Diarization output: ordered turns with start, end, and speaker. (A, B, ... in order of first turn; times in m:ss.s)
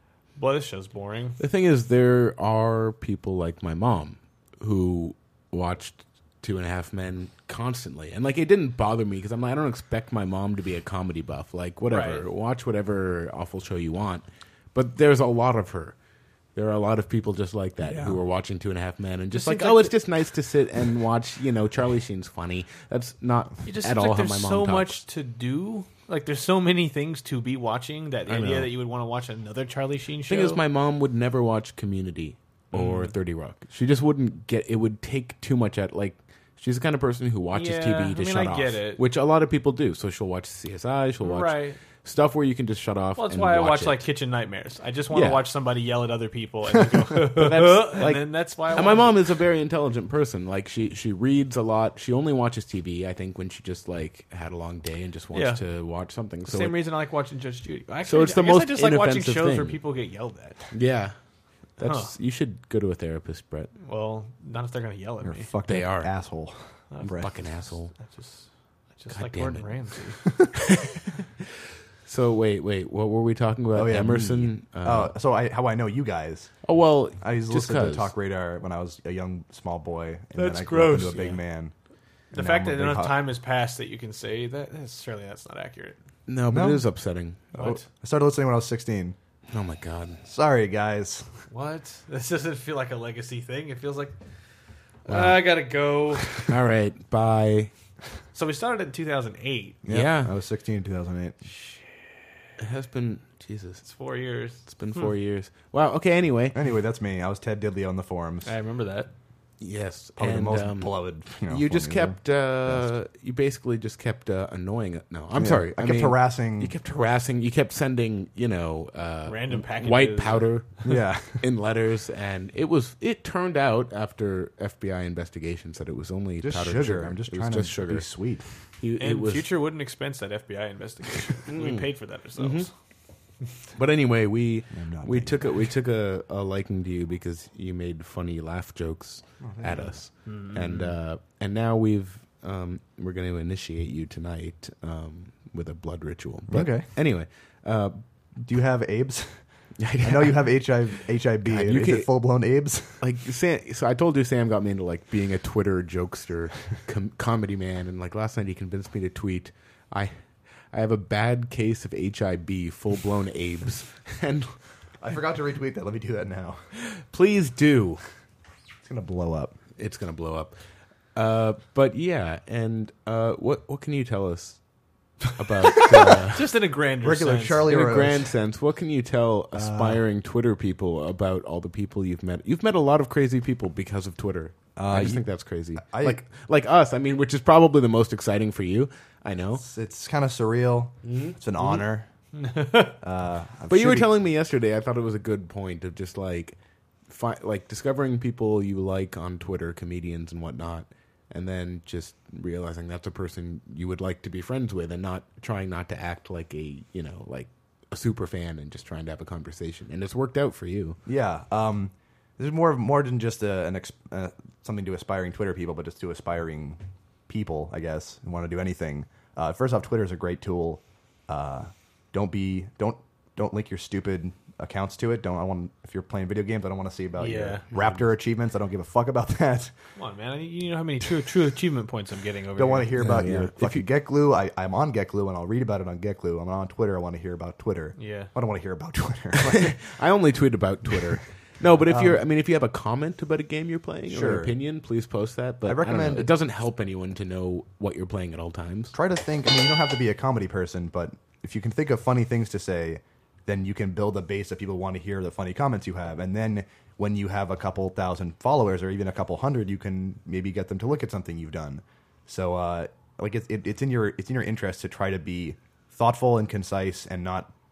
0:00.4-0:01.4 A
0:01.4-0:16.0 B
0:11.9-0:12.2 A
0:16.5-0:25.0 B
0:17.9-0:18.2 C
0:19.3-0:19.9 A
0:23.6-0:30.6 A
0:28.3-0:28.7 B
0:30.3-0:44.0 B
0:32.7-0:33.1 A
0:37.5-0:39.0 A
0:41.2-0:41.8 A
0:43.2-0:49.2 A
0:45.1-0:45.5 B
0:47.2-0:56.8 B
0:55.3-0:55.6 A
0:56.5-1:00.7 A
0:58.0-0:59.8 B
1:00.7-1:01.1 B
1:01.8-1:03.7 B
1:01.8-1:02.1 A
1:03.8-1:05.5 A
1:05.2-1:07.3 C
1:05.7-1:06.1 B
1:06.9-1:07.4 A
1:07.0-1:07.9 B
1:07.9-1:10.2 A
1:09.1-1:09.7 B
1:10.7-1:11.0 B
1:12.0-1:15.1 B
1:13.7-1:16.6 C
1:16.6-1:18.1 B
1:17.2-1:21.7 C
1:20.3-1:21.4 A
1:22.3-1:26.0 A
1:22.3-1:23.2 C
1:26.3-1:27.5 B
1:26.5-1:26.8 C
1:27.5-1:27.8 A
1:27.5-1:29.2 C
1:29.5-1:30.2 B
1:30.2-1:31.3 C
1:31.5-1:34.2 A
1:35.0-1:36.3 A
1:35.1-1:35.4 B
1:36.4-1:37.7 B
1:38.3-1:39.8 A
1:39.8-1:41.4 C
1:39.9-1:40.3 B
1:41.6-1:41.9 A
1:42.6-1:43.8 B
1:43.8-1:45.1 A
1:44.6-1:46.6 B
1:46.5-1:48.5 C
1:48.4-1:49.1 A
1:49.6-2:08.1 B
1:50.2-1:52.8 C
1:55.4-1:56.7 C
1:59.3-2:00.5 A
2:00.8-2:01.4 C
2:06.4-2:08.4 C
2:08.8-2:09.5 B
2:09.0-2:12.7 A
2:11.5-2:12.7 B
2:13.8-2:28.0 B
2:14.7-2:15.5 C
2:19.4-2:19.9 C
2:20.2-2:20.6 A
2:26.5-2:26.9 C
2:28.4-2:29.4 C
2:29.8-2:30.7 B
2:30.0-2:33.0 C
2:31.4-2:32.1 B
2:33.0-2:40.1 B
2:40.7-2:44.5 B
2:45.0-2:46.6 C
2:46.8-2:48.0 B
2:48.8-2:49.6 C
2:49.8-2:50.5 B
2:51.1-2:54.6 B
2:55.3-2:56.5 B
2:55.8-2:56.2 C
2:56.3-2:57.7 A
2:57.0-2:58.3 C
2:57.7-3:09.6 B
2:59.5-3:00.0 C
3:04.8-3:05.3 C
3:05.8-3:06.2 C
3:09.6-3:12.1 C
3:11.0-3:11.4 B
3:12.3-3:13.0 A
3:13.0-3:14.1 C
3:13.7-3:16.6 B
3:17.1-3:31.0 B
3:31.0-3:49.7 C
3:47.2-3:47.6 A
3:50.0-3:52.9 A
3:52.6-3:59.8 C
3:52.9-3:53.8 B
3:58.0-3:58.3 A
3:59.4-4:08.9 B
4:01.8-4:02.2 C
4:04.1-4:04.5 C
4:05.6-4:06.3 C
4:08.9-4:27.5 C